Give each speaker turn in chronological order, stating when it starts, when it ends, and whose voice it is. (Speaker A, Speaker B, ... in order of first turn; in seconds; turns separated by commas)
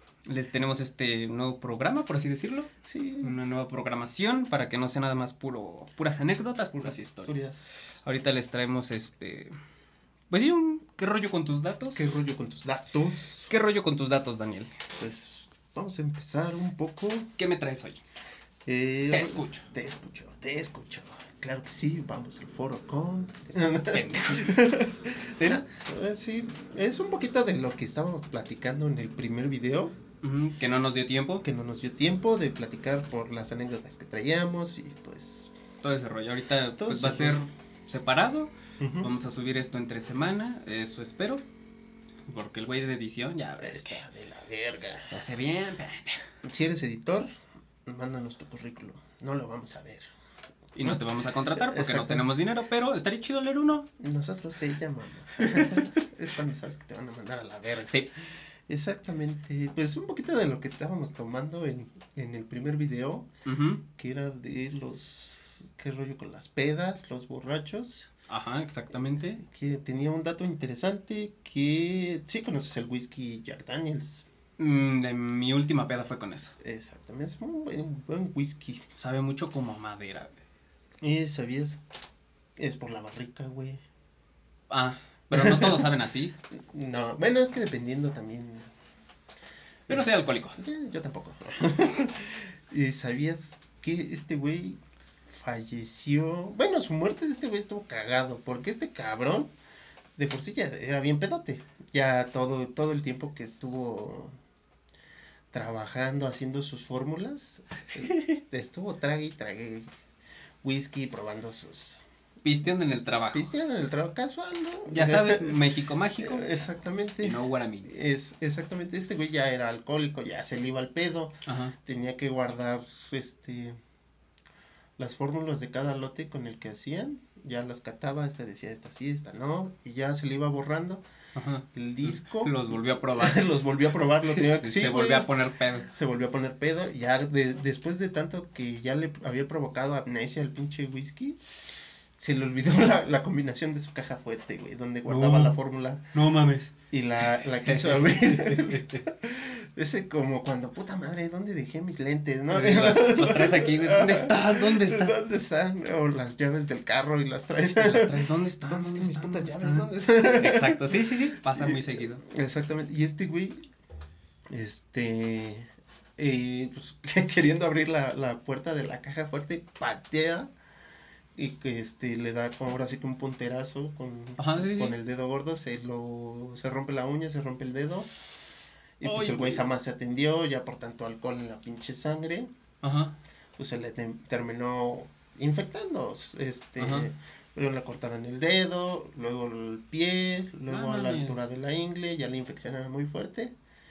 Speaker A: 0.3-2.7, Speaker B: 2.8-3.4, Speaker A: 3.2-7.5, Speaker B: 6.8-8.0, Speaker A: 8.0-9.5, Speaker A: 10.3-12.2, Speaker B: 11.9-13.5, Speaker A: 13.5-14.7, Speaker B: 15.0-17.3, Speaker A: 17.4-18.0, Speaker B: 18.6-29.9, Speaker A: 19.1-19.6, Speaker A: 23.9-24.7, Speaker A: 25.3-25.6, Speaker A: 30.2-31.4, Speaker B: 31.4-35.5, Speaker A: 35.8-41.4, Speaker B: 36.8-37.4, Speaker B: 38.8-39.1, Speaker A: 42.3-44.0, Speaker B: 43.6-45.2, Speaker A: 45.1-46.2, Speaker B: 46.4-47.3, Speaker B: 47.8-50.1, Speaker A: 50.7-53.9, Speaker B: 51.5-52.3, Speaker B: 54.0-58.1, Speaker A: 55.4-55.8, Speaker B: 58.7-63.3, Speaker A: 63.4-63.8, Speaker B: 63.9-68.1, Speaker A: 68.3-69.5, Speaker B: 69.5-74.2, Speaker A: 74.6-76.5, Speaker B: 76.6-78.8, Speaker A: 79.0-80.4, Speaker B: 81.0-81.8, Speaker B: 82.6-83.8, Speaker A: 84.7-86.3, Speaker B: 85.3-85.9, Speaker B: 86.6-88.7, Speaker A: 89.9-90.6, Speaker B: 89.9-99.5, Speaker B: 100.2-104.3, Speaker B: 105.5-109.9, Speaker A: 108.0-108.4, Speaker B: 110.6-112.0, Speaker A: 112.4-113.5, Speaker B: 113.3-115.6, Speaker A: 114.9-116.5, Speaker B: 116.2-123.8, Speaker A: 117.2-117.9, Speaker A: 121.5-121.7, Speaker B: 125.0-131.0, Speaker A: 131.3-133.5, Speaker B: 131.7-135.3, Speaker A: 134.3-135.9, Speaker B: 135.8-141.4, Speaker B: 142.2-146.0, Speaker A: 145.1-145.6, Speaker A: 146.1-146.7, Speaker B: 146.9-163.6, Speaker A: 147.6-149.0, Speaker A: 152.5-155.1, Speaker A: 157.7-162.2, Speaker B: 164.5-170.5, Speaker B: 171.3-178.1, Speaker A: 174.4-174.9, Speaker B: 179.0-182.5, Speaker A: 179.0-179.6, Speaker A: 182.8-183.1, Speaker B: 183.6-193.5, Speaker A: 186.8-187.1, Speaker A: 190.7-191.4